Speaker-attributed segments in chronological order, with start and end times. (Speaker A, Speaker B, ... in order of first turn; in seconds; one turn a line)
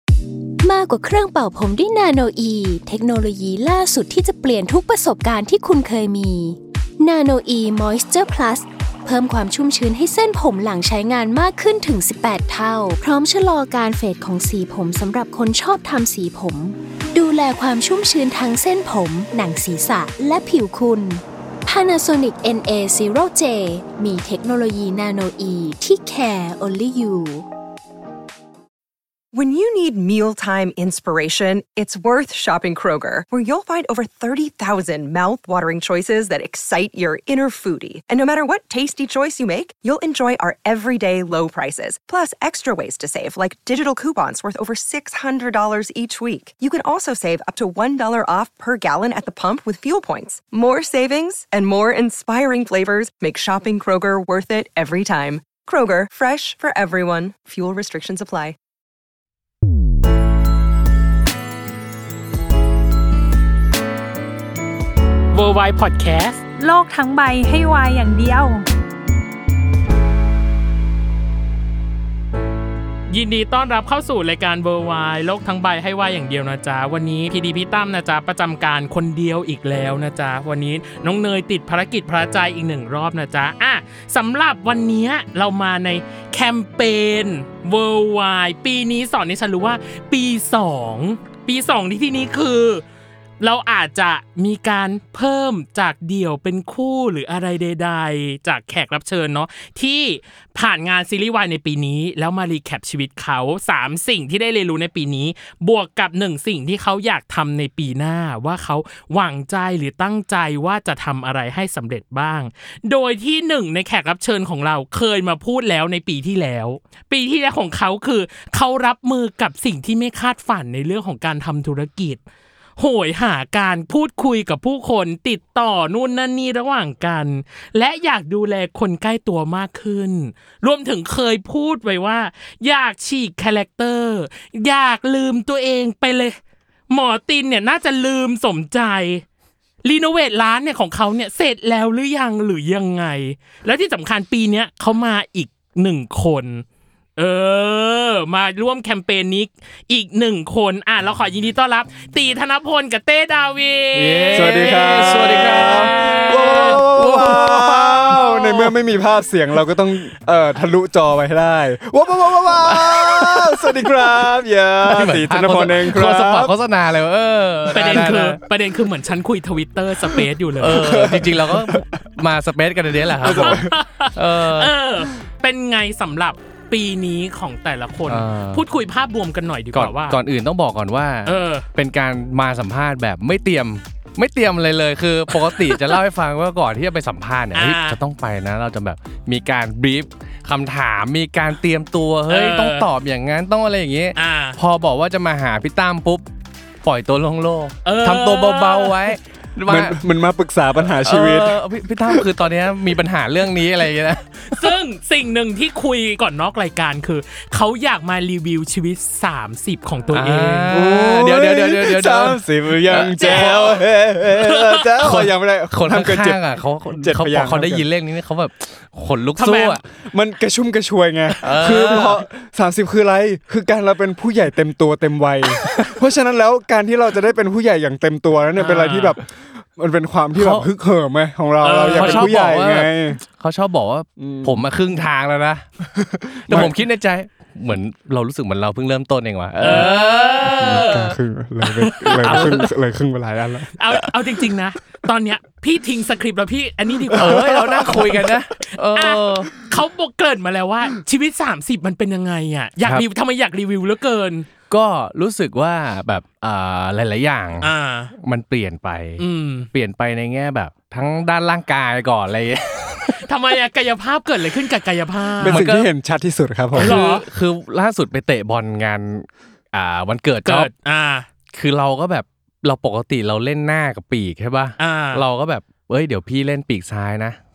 Speaker A: 0.6-27.4
Speaker B: 29.3-58.6
Speaker C: 65.3-66.4
Speaker D: 66.6-68.6
Speaker C: 73.1-92.8
Speaker C: 93.4-122.2
Speaker C: 122.8-136.4
Speaker C: 136.9-139.2
Speaker C: 139.8-146.6
Speaker C: 147.2-156.8
Speaker E: 153.9-158.6
Speaker F: 154.3-166.5
Speaker E: 162.6-163.7
Speaker E: 164.8-168.4
Speaker C: 167.7-170.9
Speaker E: 170.6-174.7
Speaker F: 170.7-171.9
Speaker F: 173.2-173.8
Speaker C: 173.3-180.2
Speaker E: 178.1-178.6
Speaker E: 179.7-196.3
Speaker C: 181.2-181.7
Speaker C: 185.4-185.9
Speaker C: 187.5-188.0
Speaker C: 192.3-192.9
Speaker C: 194.2-194.6
Speaker E: 196.8-200.0
Speaker C: 197.8-199.1
Speaker F: 199.7-201.6
Speaker E: 201.0-204.7
Speaker C: 204.5-210.7
Speaker E: 210.1-213.8
Speaker F: 210.7-216.4
Speaker C: 213.2-213.8
Speaker E: 215.0-219.8
Speaker F: 216.9-217.8
Speaker C: 219.4-219.8
Speaker F: 220.0-233.2
Speaker E: 221.4-222.2
Speaker E: 225.6-225.9
Speaker C: 228.6-229.2
Speaker E: 230.3-230.7
Speaker C: 231.6-232.3
Speaker E: 231.9-241.2
Speaker F: 234.2-234.6
Speaker F: 236.3-236.7
Speaker C: 239.6-241.0
Speaker F: 240.6-243.8
Speaker C: 241.8-242.5
Speaker E: 242.2-242.7
Speaker C: 243.8-248.3
Speaker E: 247.1-249.5
Speaker C: 248.9-254.5
Speaker E: 254.7-263.2
Speaker C: 257.6-258.1
Speaker C: 259.2-259.7
Speaker C: 263.1-265.6
Speaker F: 265.4-266.9
Speaker E: 265.4-265.9
Speaker E: 266.7-270.7
Speaker C: 266.8-267.2
Speaker C: 270.4-271.3
Speaker E: 271.5-277.4
Speaker C: 274.8-275.2